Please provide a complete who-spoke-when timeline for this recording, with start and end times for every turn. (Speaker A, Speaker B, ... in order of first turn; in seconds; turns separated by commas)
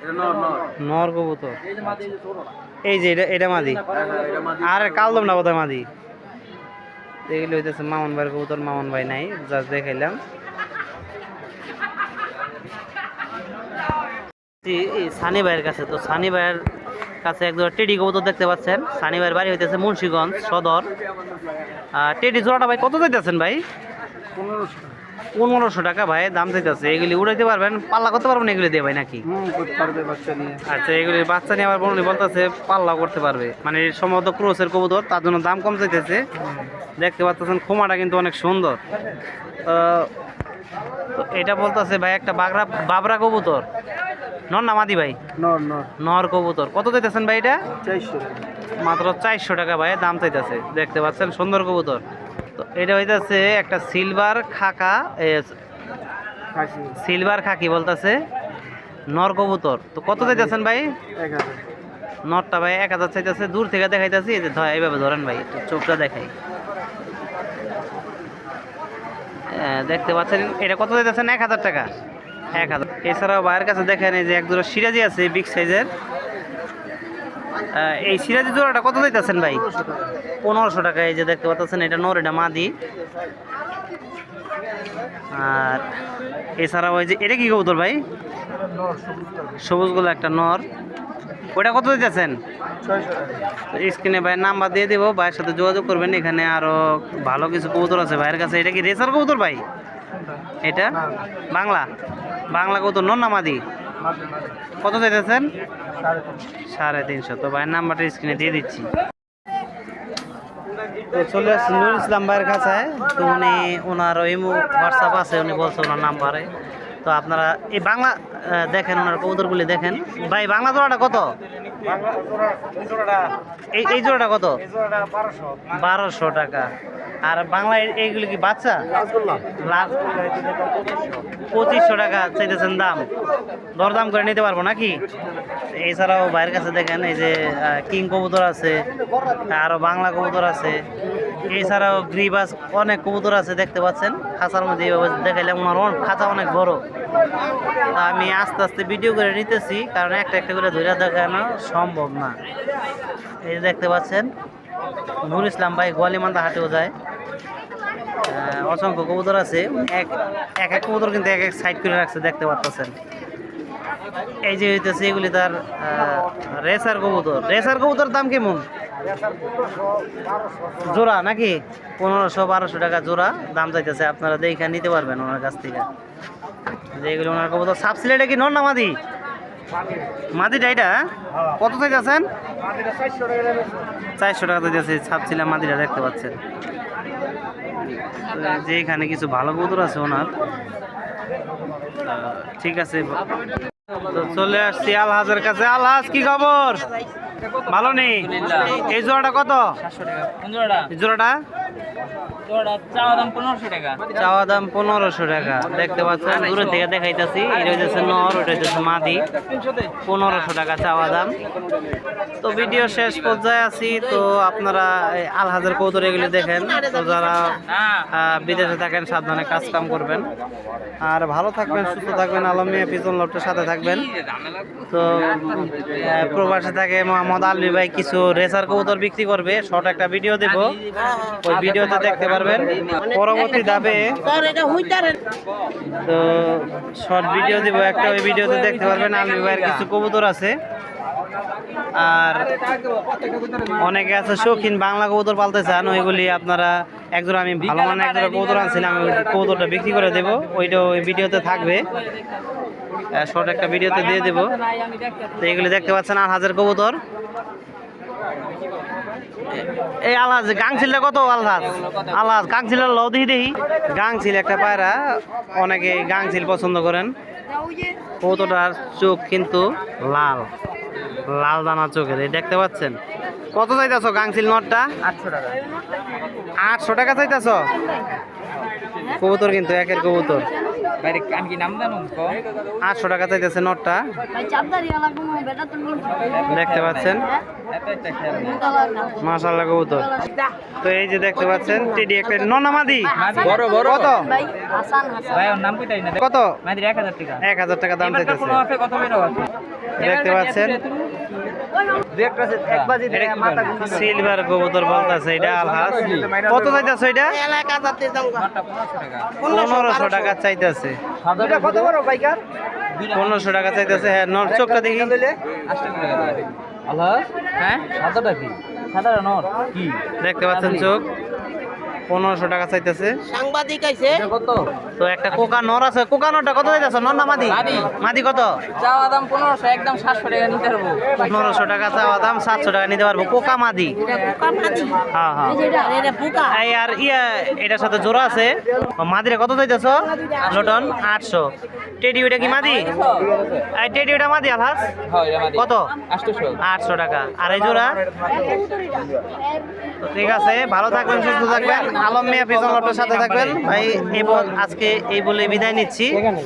Speaker A: 0.8-2.1, Speaker A: 2.8-3.8, Speaker B: 4.1-4.5, Speaker A: 4.6-5.9, Speaker A: 7.3-10.2, Speaker A: 14.6-16.6, Speaker A: 17.2-20.9, Speaker A: 21.9-23.6, Speaker B: 24.4-24.9, Speaker A: 25.4-29.2, Speaker B: 29.3-30.6, Speaker A: 30.6-36.2, Speaker A: 37.0-38.8, Speaker A: 39.6-40.1, Speaker A: 41.1-43.6, Speaker A: 44.5-45.1, Speaker B: 45.4-45.9, Speaker A: 46.0-47.6, Speaker B: 47.8-48.4, Speaker A: 48.8-52.0, Speaker A: 52.5-55.5, Speaker B: 56.5-56.9, Speaker A: 56.9-58.2, Speaker A: 59.1-60.9, Speaker B: 61.2-61.6, Speaker A: 62.3-66.3, Speaker A: 69.5-71.9, Speaker A: 72.5-75.9, Speaker A: 77.7-79.7, Speaker A: 80.4-82.7, Speaker A: 85.3-85.8, Speaker A: 86.6-88.0, Speaker A: 89.6-90.6, Speaker A: 91.5-92.3, Speaker B: 92.9-93.3, Speaker A: 93.7-99.6, Speaker A: 100.6-101.0, Speaker A: 101.5-101.9, Speaker A: 102.5-103.6, Speaker A: 104.8-105.5, Speaker A: 106.7-108.9, Speaker A: 111.1-116.5, Speaker A: 117.0-121.3, Speaker A: 123.7-124.6, Speaker A: 125.7-126.7, Speaker A: 127.2-128.8, Speaker A: 129.5-130.1, Speaker A: 131.5-133.1, Speaker A: 133.8-135.0, Speaker A: 135.8-138.8, Speaker A: 139.5-140.8, Speaker A: 141.5-146.8, Speaker A: 147.9-152.3, Speaker A: 153.4-154.3, Speaker A: 155.2-156.9, Speaker A: 158.2-162.9, Speaker A: 164.4-168.7, Speaker A: 170.8-175.9, Speaker A: 176.9-179.0, Speaker A: 180.3-181.0, Speaker A: 181.6-182.2, Speaker A: 184.2-186.3, Speaker A: 188.1-190.3, Speaker A: 192.0-193.2, Speaker A: 194.1-196.9, Speaker A: 197.7-199.8, Speaker C: 198.2-198.8, Speaker C: 199.8-200.9, Speaker A: 200.9-201.4, Speaker C: 202.4-204.1, Speaker A: 204.1-209.2, Speaker A: 210.1-211.3, Speaker A: 212.4-220.3, Speaker C: 217.7-218.1, Speaker A: 221.0-224.1, Speaker C: 224.3-224.6, Speaker A: 224.9-230.8, Speaker C: 230.8-231.2, Speaker A: 231.4-234.5, Speaker C: 234.4-235.1, Speaker A: 236.0-240.6, Speaker C: 238.2-239.8, Speaker A: 241.9-242.5, Speaker A: 243.8-251.9, Speaker C: 247.7-248.6, Speaker A: 253.1-254.6, Speaker C: 254.6-255.3, Speaker A: 255.4-257.0, Speaker A: 259.9-265.0, Speaker A: 265.5-267.1, Speaker A: 268.2-270.5, Speaker A: 271.3-273.0, Speaker A: 273.5-274.9, Speaker C: 275.0-275.6, Speaker A: 276.6-277.7, Speaker A: 279.1-280.5, Speaker C: 281.0-282.4, Speaker A: 282.8-284.0, Speaker C: 284.6-287.0, Speaker A: 286.5-287.4, Speaker C: 287.6-288.9, Speaker A: 289.2-290.1, Speaker A: 290.8-294.4, Speaker C: 293.2-297.4, Speaker A: 296.2-296.6, Speaker A: 297.4-298.6, Speaker C: 298.0-299.5, Speaker A: 300.0-300.8, Speaker C: 300.0-301.1, Speaker C: 302.2-303.7, Speaker B: 302.2-302.6, Speaker A: 303.1-307.7, Speaker C: 307.7-309.4, Speaker A: 309.4-311.0, Speaker C: 311.2-312.0, Speaker B: 311.7-312.4, Speaker C: 313.0-313.4, Speaker A: 313.1-315.2, Speaker C: 315.2-320.0, Speaker A: 320.2-321.1, Speaker C: 320.6-320.9, Speaker A: 322.1-323.1, Speaker C: 323.4-324.6, Speaker A: 325.0-328.6, Speaker C: 327.5-327.9, Speaker C: 328.7-331.1, Speaker A: 331.1-334.0, Speaker C: 334.1-334.9, Speaker A: 335.0-341.5, Speaker C: 335.9-336.3, Speaker A: 342.0-342.9, Speaker C: 342.6-343.4, Speaker A: 343.7-344.9, Speaker C: 345.1-346.6, Speaker A: 345.5-345.9, Speaker A: 346.6-348.0, Speaker A: 350.0-356.2, Speaker C: 351.7-353.5